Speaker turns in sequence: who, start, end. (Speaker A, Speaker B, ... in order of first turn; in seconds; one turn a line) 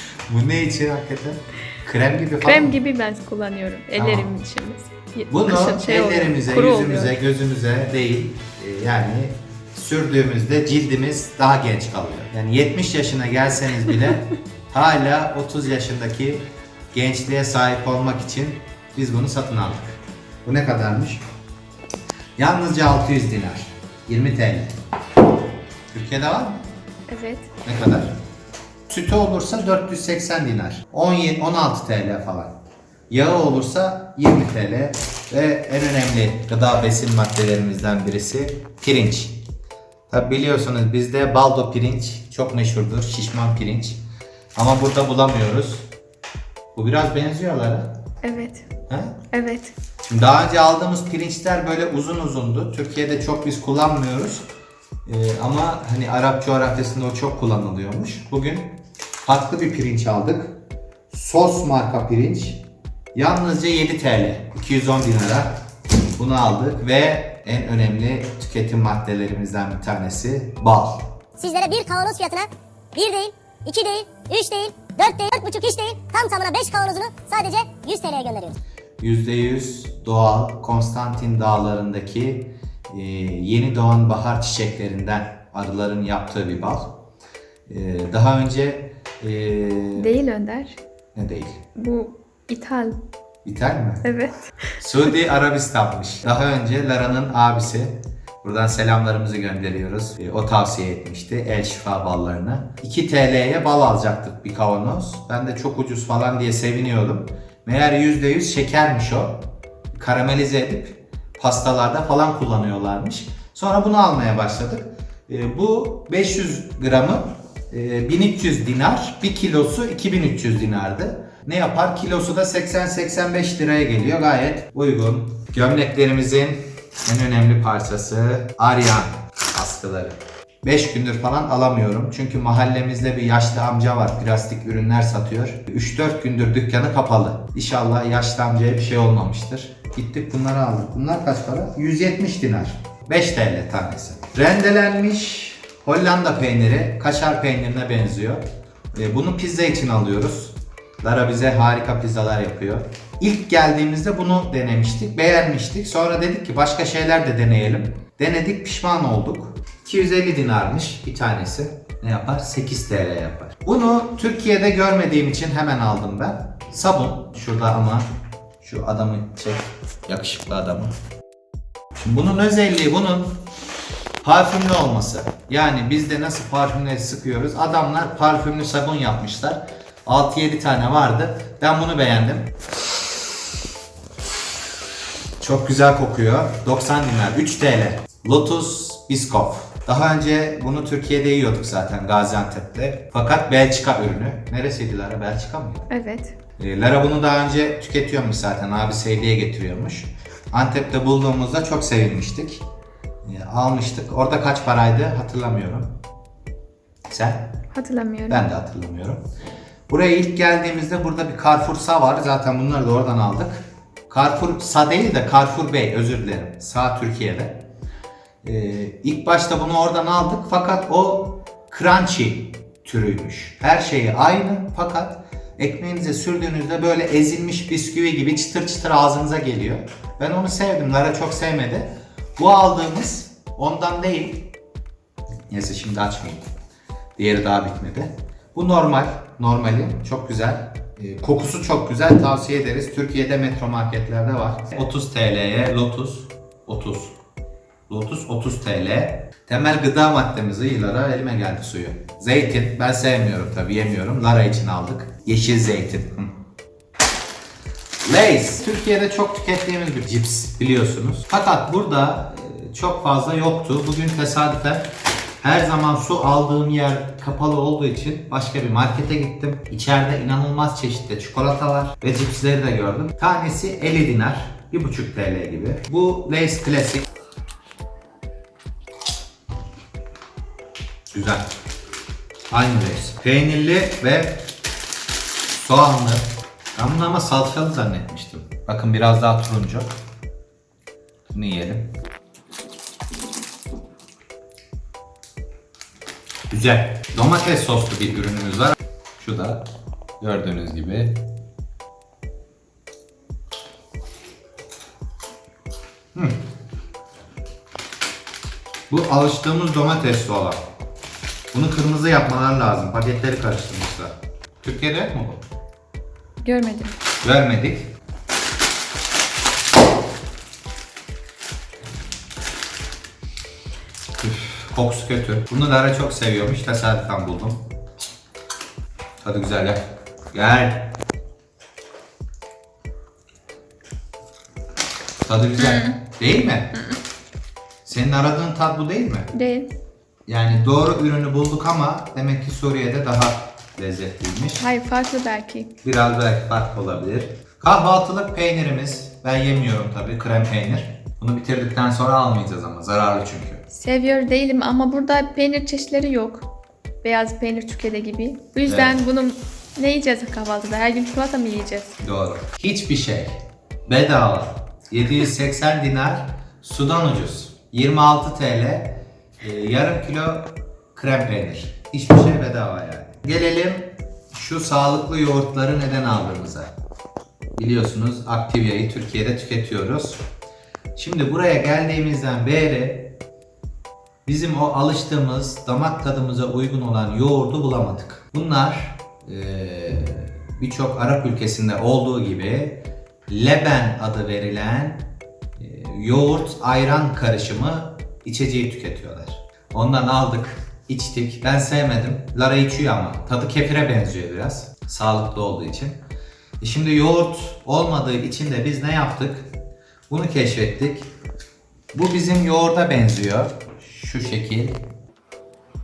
Speaker A: 0.3-2.8
Speaker B: 2.4-7.1
Speaker A: 4.0-4.3
Speaker A: 5.3-21.2
Speaker A: 22.4-24.7
Speaker A: 25.9-26.6
Speaker B: 27.1-27.5
Speaker A: 27.6-28.1
Speaker A: 28.9-32.5
Speaker A: 33.1-39.4
Speaker A: 40.1-44.0
Speaker A: 44.5-45.9
Speaker A: 46.7-48.0
Speaker B: 48.2-48.7
Speaker A: 48.9-49.2
Speaker B: 49.3-49.7
Speaker A: 50.1-54.4
Speaker A: 55.0-60.6
Speaker A: 61.1-65.6
Speaker A: 66.2-71.1
Speaker C: 71.4-78.6
Speaker A: 79.0-87.0
Speaker A: 87.7-90.1
Speaker B: 90.0-90.8
Speaker A: 91.1-91.6
Speaker B: 91.8-93.0
Speaker A: 93.4-94.0
Speaker B: 94.0-94.4
Speaker A: 94.8-168.1
Speaker A: 168.6-170.9
Speaker A: 171.9-173.4
Speaker A: 174.2-182.5
Speaker A: 185.4-195.9
Speaker B: 195.9-196.3
Speaker A: 196.6-202.6
Speaker A: 203.2-205.9
Speaker A: 207.1-207.6
Speaker B: 207.7-208.4
Speaker A: 208.3-209.2
Speaker A: 209.9-217.6
Speaker A: 218.4-234.5
Speaker A: 235.5-236.4
Speaker A: 237.2-247.1
Speaker A: 247.9-256.3
Speaker A: 258.0-277.1
Speaker A: 281.1-281.5
Speaker A: 282.5-284.4
Speaker A: 285.5-289.9
Speaker A: 291.3-291.9
Speaker A: 296.5-299.6
Speaker A: 300.2-301.2
Speaker A: 308.9-310.6
Speaker A: 311.5-315.4
Speaker B: 316.4-316.9
Speaker A: 317.2-317.9
Speaker A: 324.2-327.6
Speaker A: 329.2-330.9
Speaker A: 335.2-336.8
Speaker B: 335.6-336.0
Speaker B: 336.7-337.0
Speaker A: 337.8-339.3
Speaker B: 339.3-339.7
Speaker A: 340.3-344.6
Speaker B: 344.6-345.7
Speaker A: 345.8-353.6
Speaker B: 353.7-356.5
Speaker B: 357.0-362.0
Speaker A: 358.7-359.0
Speaker A: 362.0-376.7
Speaker A: 377.6-380.2
Speaker A: 380.9-383.2
Speaker A: 384.2-406.0
Speaker A: 406.6-409.5
Speaker A: 410.1-411.1
Speaker A: 411.9-414.8